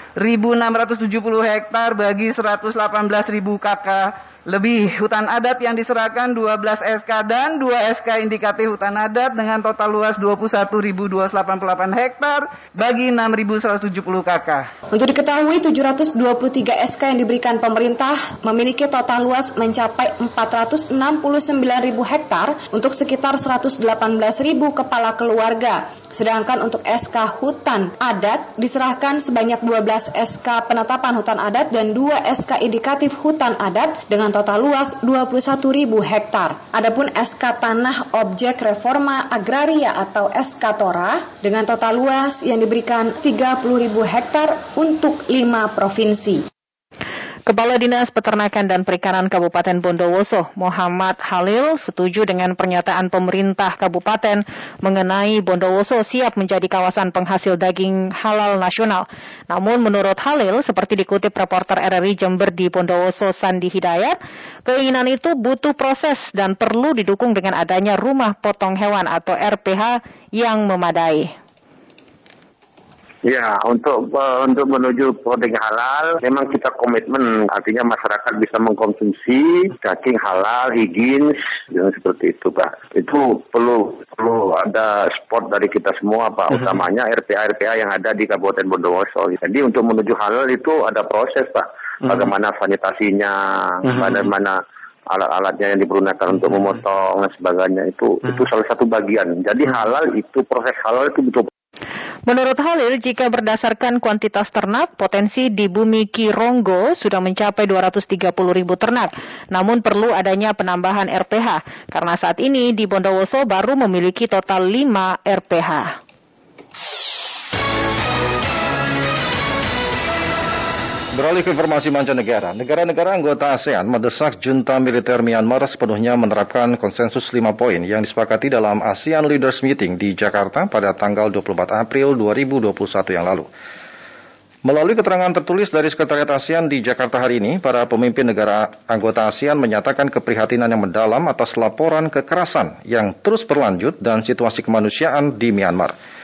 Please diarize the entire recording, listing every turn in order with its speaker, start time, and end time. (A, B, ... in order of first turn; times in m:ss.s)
0:00.2-0:14.6 A
0:14.9-0:46.4 B
0:47.5-1:11.3 C
1:13.2-1:34.5 D
1:35.1-1:41.4 D
1:42.3-1:55.9 C
2:01.1-2:13.5 E
2:14.6-2:25.9 E